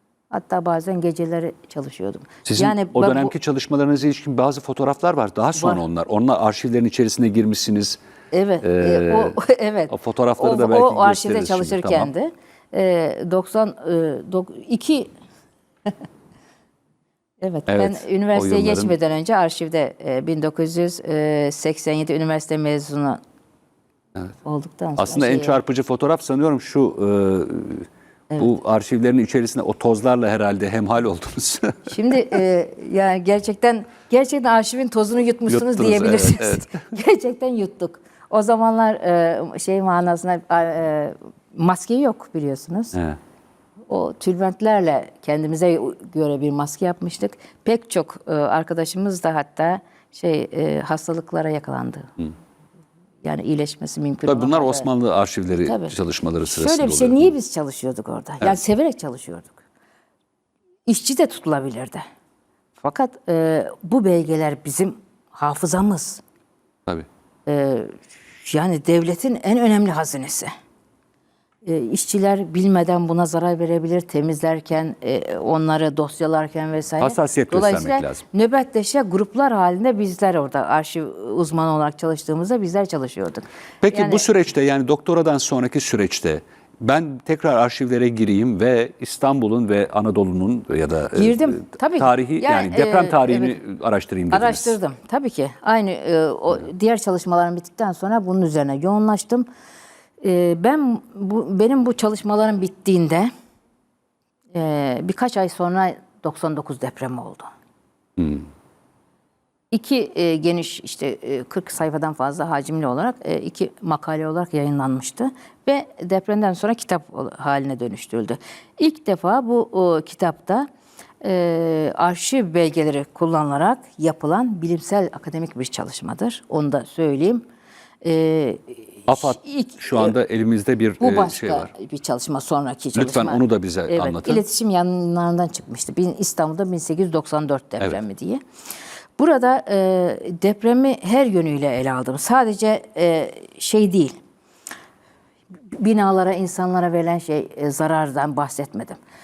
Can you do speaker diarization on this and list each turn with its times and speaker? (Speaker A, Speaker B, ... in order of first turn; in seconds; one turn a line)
Speaker A: 0.3-3.3
Speaker B: 2.4-8.0
Speaker A: 5.5-5.8
Speaker A: 8.3-15.1
Speaker B: 8.6-9.4
Speaker B: 9.9-12.1
Speaker A: 17.4-23.2
Speaker B: 17.7-18.9
Speaker A: 24.4-25.6
Speaker B: 25.0-31.9
Speaker A: 31.9-42.9
Speaker B: 35.5-36.7
Speaker A: 43.9-52.1
Speaker A: 53.2-54.9
Speaker B: 54.2-57.3
Speaker A: 55.6-59.5
Speaker A: 60.9-62.0
Speaker A: 62.8-66.2
Speaker A: 67.5-70.5
Speaker A: 71.6-84.2
Speaker B: 77.0-78.2
Speaker B: 83.8-94.7
Speaker A: 91.1-93.6
Speaker A: 94.3-99.5
Speaker A: 100.2-103.3
Speaker A: 104.5-107.5
Speaker B: 108.2-108.4
Speaker A: 109.7-120.7
Speaker A: 121.2-127.4
Speaker A: 128.0-130.1
Speaker B: 129.1-131.7
Speaker A: 131.0-138.4
Speaker B: 132.9-134.4
Speaker A: 139.2-144.2
Speaker A: 145.7-149.0